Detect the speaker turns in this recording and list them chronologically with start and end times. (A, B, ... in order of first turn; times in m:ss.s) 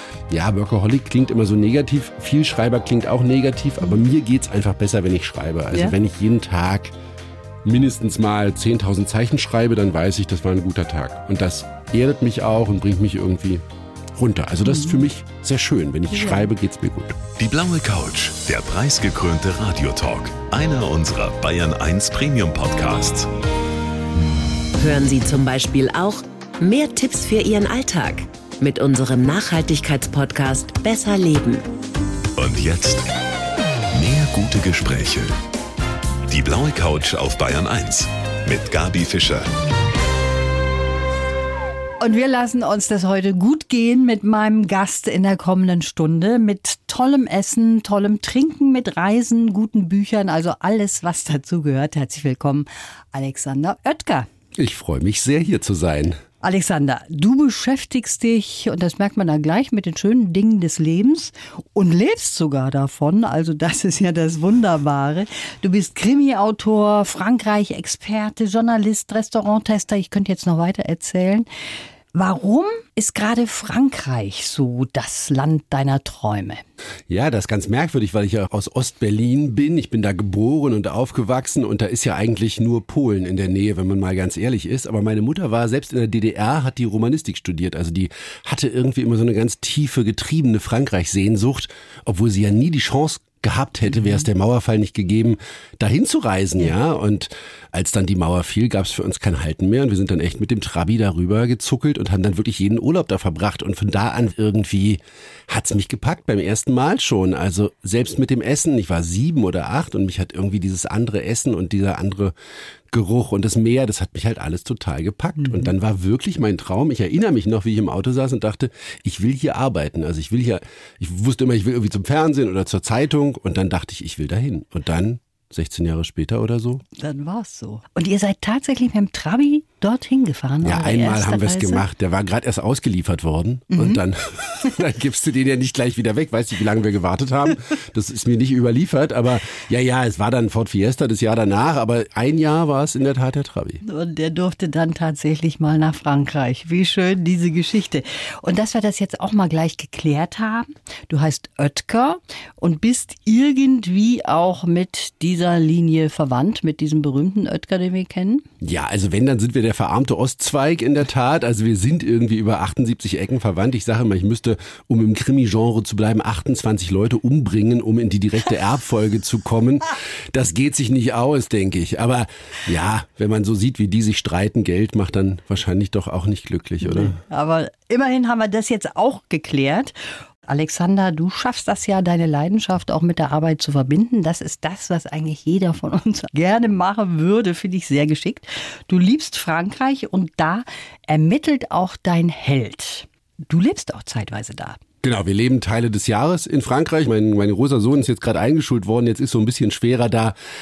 0:00.3-0:06.9 A
0:05.7-0:06.0 B
0:07.6-0:13.6 A
0:14.2-0:17.2 A
0:14.6-0:15.1 B
0:16.1-0:16.5 B
0:17.4-0:23.3 C
0:24.8-0:31.6 D
0:32.4-0:33.1 C
0:33.9-0:35.4 C
0:36.3-0:39.5 C
0:42.0-0:54.3 B
0:54.6-0:56.2 A
0:56.4-1:11.5 B
1:12.1-1:16.6 B
1:17.1-1:52.3 A
1:52.9-2:06.8 A
2:07.0-2:11.8 B
2:10.6-2:23.8 A
2:13.7-2:14.0 B
2:23.8-2:38.5 B
2:38.6-2:57.2 A
2:56.8-3:14.8 B
3:15.0-3:20.4 A